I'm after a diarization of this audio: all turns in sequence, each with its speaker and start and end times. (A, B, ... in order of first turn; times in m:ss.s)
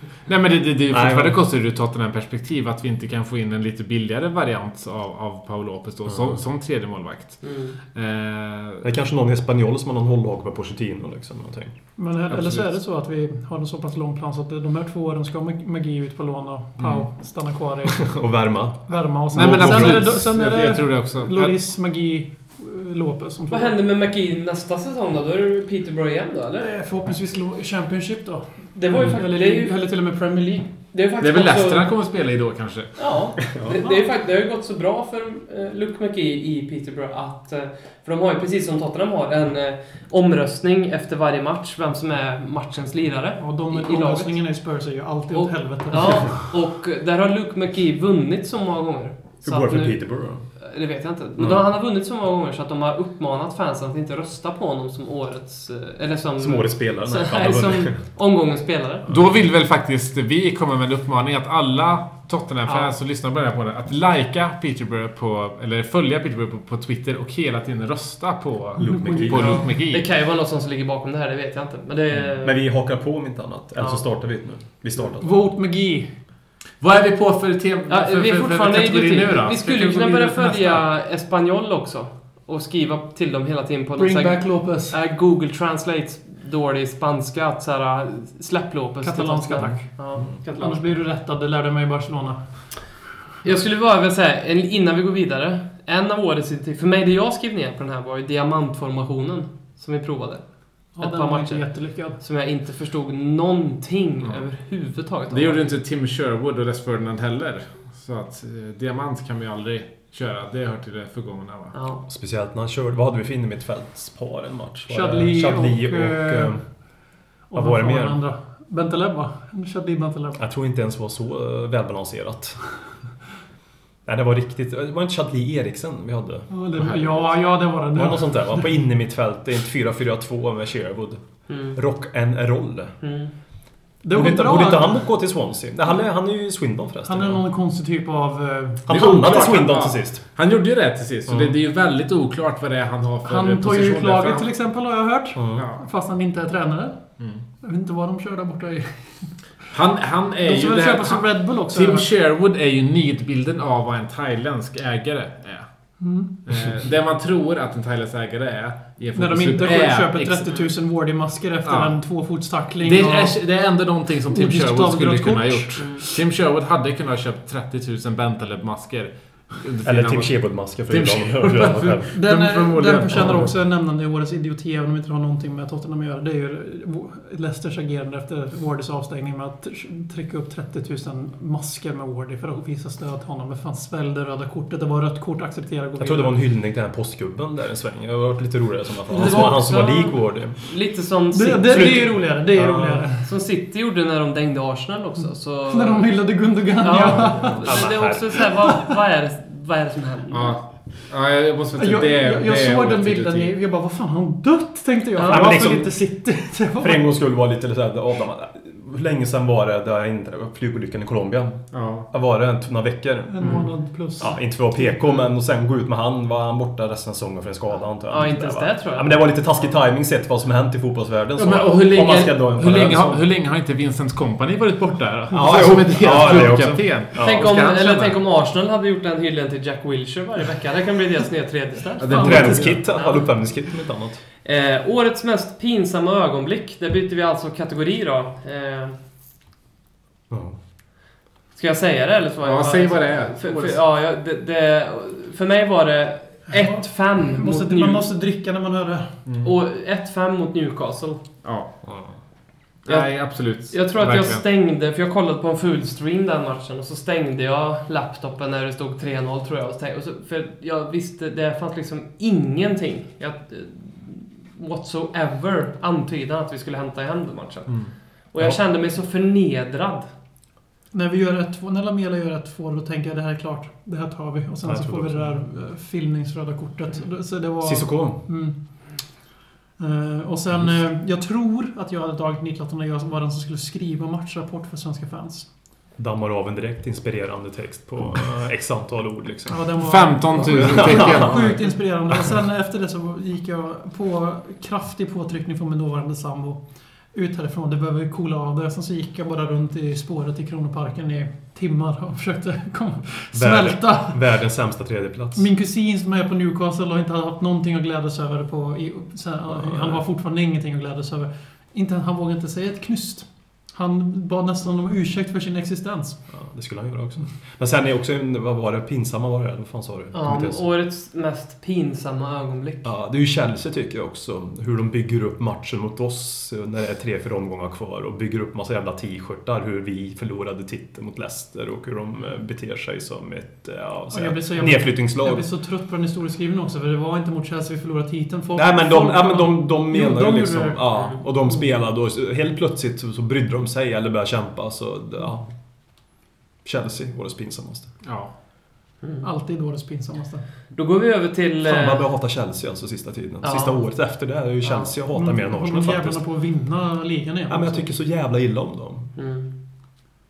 0:00.3-0:08.9 A
0:00.9-0:01.4 B
0:06.1-0:06.4 B
0:07.4-0:07.8 C
0:08.8-0:11.8 B
0:12.0-0:18.2 D
0:12.3-0:12.6 A
0:16.8-0:17.1 A
0:17.9-0:20.2 B
0:18.9-0:23.8 D
0:19.3-0:21.6 A
0:23.5-0:26.7 C
0:26.6-0:30.7 D
0:28.8-0:29.8 C
0:30.9-0:31.9 C
0:31.2-0:33.0 A
0:33.0-0:44.4 C
0:33.5-0:33.8 B
0:43.4-0:46.4 D
0:45.3-0:59.1 C
0:49.4-0:50.4 B
0:51.4-0:51.6 B
0:56.4-0:58.0 B
0:59.1-1:10.0 A
1:02.6-1:02.9 C
1:08.8-1:09.6 B
1:08.8-1:09.6 D
1:09.3-1:12.6 C
1:12.4-1:15.4 B
1:13.8-1:14.0 C
1:15.2-1:16.1 D
1:16.8-1:20.8 A
1:17.9-1:30.9 C
1:24.0-1:25.0 D
1:29.0-1:29.9 D
1:30.6-1:32.4 D
1:33.4-1:40.4 C
1:41.0-1:42.2 D
1:41.0-1:45.7 C
1:45.3-1:51.8 A
1:51.7-1:52.0 C
1:52.1-1:56.6 B
1:54.9-1:56.6 D
1:57.5-2:00.4 D
1:57.5-1:58.2 B
2:00.4-2:02.6 B
2:04.1-2:06.5 B
2:06.5-2:08.8 D
2:07.9-2:13.0 B
2:11.5-2:11.8 C
2:13.0-2:13.3 C
2:14.0-2:15.0 D
2:14.1-2:17.4 B
2:17.0-2:19.6 D
2:18.9-2:20.2 B
2:18.9-2:24.5 A
2:21.3-2:21.6 B
2:23.2-2:27.0 D
2:25.4-2:25.7 B
2:25.5-2:25.8 A
2:27.6-2:29.3 D
2:29.7-2:35.7 A
2:30.4-2:32.1 D
2:36.0-2:36.3 D
2:36.5-2:40.5 A
2:39.2-2:43.4 D
2:41.6-2:42.0 A
2:42.8-2:50.3 A
2:44.3-2:46.1 D
2:45.8-2:46.0 C
2:49.8-2:52.1 B
2:50.9-2:53.5 A
2:52.1-3:06.4 D
3:06.0-3:10.6 B
3:09.1-3:12.1 C
3:09.1-3:09.6 D
3:11.3-3:13.3 D
3:11.7-3:13.0 B
3:13.2-3:16.1 C
3:15.7-3:17.7 D
3:16.8-3:20.6 C
3:17.4-3:18.5 B
3:20.3-3:23.5 A
3:21.8-3:27.1 D
3:25.2-3:25.7 C
3:25.3-3:26.0 B
3:26.8-3:33.6 B
3:31.7-3:32.1 A
3:33.3-3:35.0 D
3:33.4-3:33.7 A
3:34.2-3:43.2 B
3:38.1-3:39.3 C
3:41.4-3:48.2 A
3:45.3-3:47.5 B
3:47.2-3:53.2 C
3:52.0-3:52.8 A
3:52.2-3:54.2 B
3:52.2-3:52.6 D
3:54.4-3:59.0 C
4:00.3-4:00.6 B
4:01.6-4:08.1 C
4:02.4-4:03.8 A
4:06.5-4:09.1 D
4:09.3-4:09.5 A
4:09.4-4:11.2 C
4:11.4-4:11.7 A
4:11.8-4:12.1 B
4:12.9-4:14.4 A
4:12.9-4:30.1 C
4:30.9-4:38.6 D
4:34.6-4:35.4 B
4:37.6-4:38.2 B
4:39.8-4:45.5 D
4:46.0-4:49.6 B
4:49.5-4:56.6 D
4:49.8-4:51.7 A
4:50.4-4:51.6 B
4:57.1-5:04.2 D
5:03.3-5:05.5 B
5:05.4-5:16.2 D
5:09.6-5:10.0 B
5:16.3-5:20.6 B
5:20.1-5:22.9 C
5:22.8-5:35.5 B
5:34.1-5:40.8 D
5:38.6-5:45.5 B
5:46.6-5:47.9 B
5:48.0-5:48.3 A
5:49.2-5:50.4 D
5:50.7-5:52.1 C
5:51.6-5:56.2 B
5:53.4-5:53.8 C
5:54.6-5:54.9 C
5:55.2-5:57.9 D
5:57.5-5:59.1 B
5:59.2-5:59.6 C